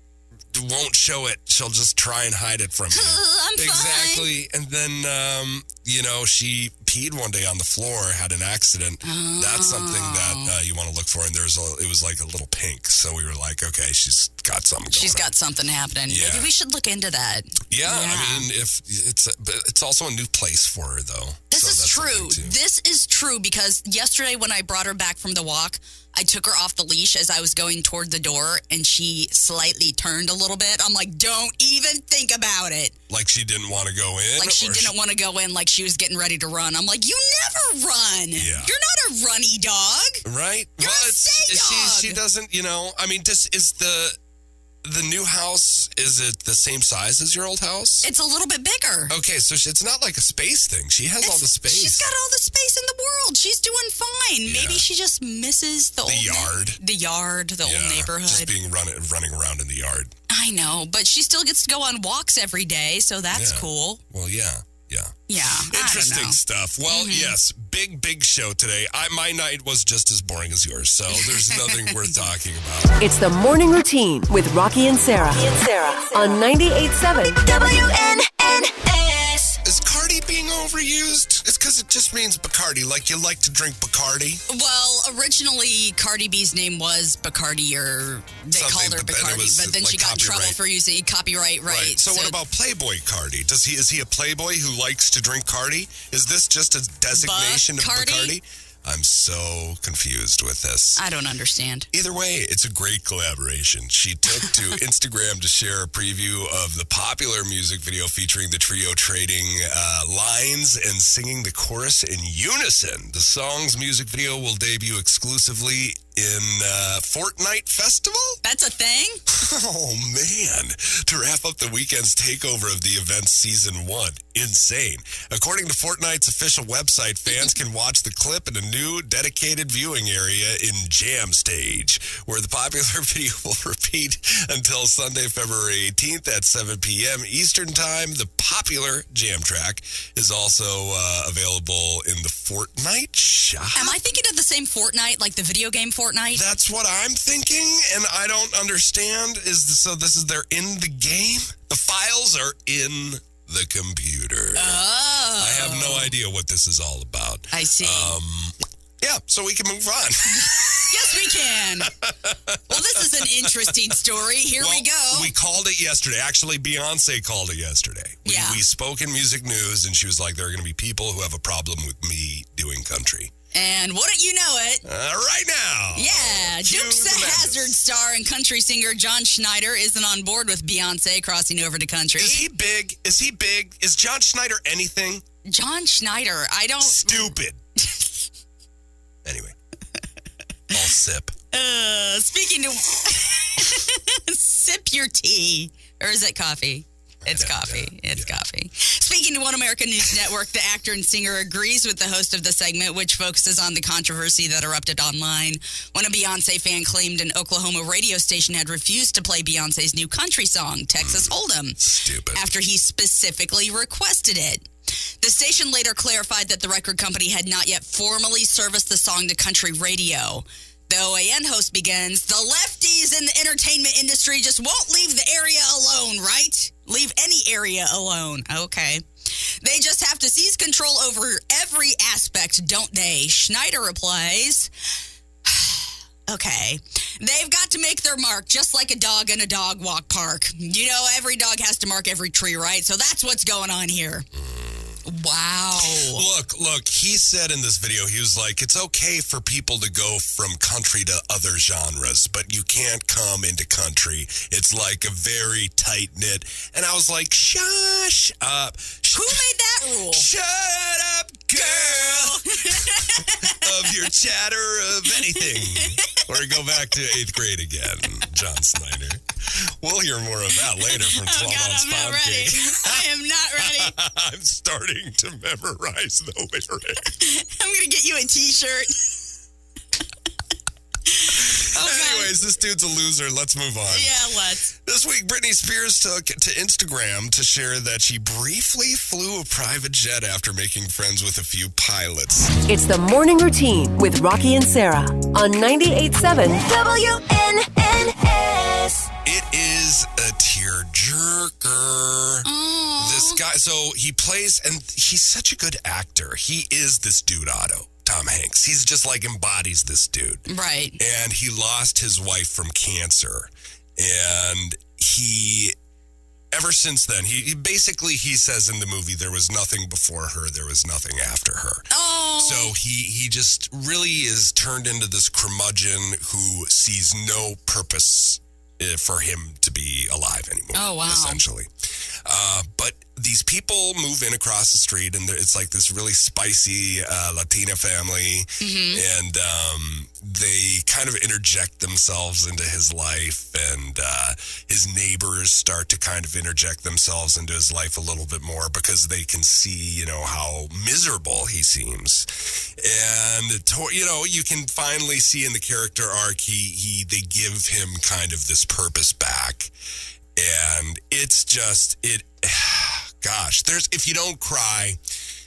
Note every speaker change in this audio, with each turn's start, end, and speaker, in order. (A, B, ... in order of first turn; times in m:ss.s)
0:00.5-0:15.3 A
0:02.9-0:04.3 B
0:09.0-0:10.6 B
0:14.9-0:18.5 B
0:16.1-0:16.5 A
0:17.7-0:22.6 A
0:21.5-0:33.0 B
0:33.1-0:34.9 A
0:34.4-0:40.2 B
0:38.3-0:38.7 A
0:40.2-0:44.2 A
0:40.8-0:42.2 B
0:44.8-0:48.1 A
0:48.0-0:49.1 B
0:49.1-0:52.1 A
0:51.2-0:58.5 B
0:54.4-0:54.9 A
0:56.0-0:56.8 A
0:57.6-1:00.1 A
1:00.3-1:04.0 B
1:03.3-1:12.9 A
1:05.3-1:07.4 B
1:11.1-1:12.1 B
1:13.0-1:17.5 C
1:17.4-1:19.6 D
1:19.6-1:24.4 A
1:24.5-1:32.4 B
1:28.5-1:30.6 A
1:31.6-1:41.0 A
1:37.1-1:38.4 B
1:41.0-1:41.9 B
1:41.9-1:58.4 A
1:58.4-1:59.2 B
1:59.3-2:24.0 A
2:23.7-2:26.5 B
2:26.3-2:34.8 A
2:34.5-2:36.1 B
2:35.4-2:43.9 A
2:37.5-2:38.2 B
2:40.3-2:41.9 B
2:42.7-2:45.3 B
2:44.6-2:53.3 A
2:48.2-2:48.6 B
2:53.5-2:54.8 B
2:54.8-2:57.8 A
2:55.9-3:02.5 B
3:02.2-3:05.2 A
3:05.4-3:07.4 B
3:06.8-3:07.6 A
3:09.2-3:09.5 A
3:10.7-3:11.3 A
3:11.5-3:34.7 B
3:17.2-3:18.3 A
3:31.0-3:32.4 A
3:35.2-3:54.7 B
3:55.4-4:04.2 B
4:04.3-4:05.0 A
4:05.0-4:06.2 B
4:05.8-4:19.4 A
4:19.1-4:20.3 B
4:20.1-4:33.0 A
4:21.5-4:23.8 B
4:25.1-4:26.2 B
4:30.7-4:33.9 B
4:33.6-4:37.0 A
4:37.1-4:39.2 B
4:41.1-4:42.3 B
4:41.4-4:52.6 A
4:43.9-4:44.7 B
4:52.7-4:56.6 C
4:56.6-4:59.1 D
4:59.2-5:02.5 A
5:02.4-5:03.4 B
5:03.0-5:10.5 A
5:10.5-5:11.0 B
5:11.0-5:15.7 A
5:16.5-5:31.7 A
5:21.9-5:22.7 B
5:30.7-5:31.4 B
5:32.2-5:59.7 A
5:38.6-5:39.0 B
6:00.4-6:05.0 A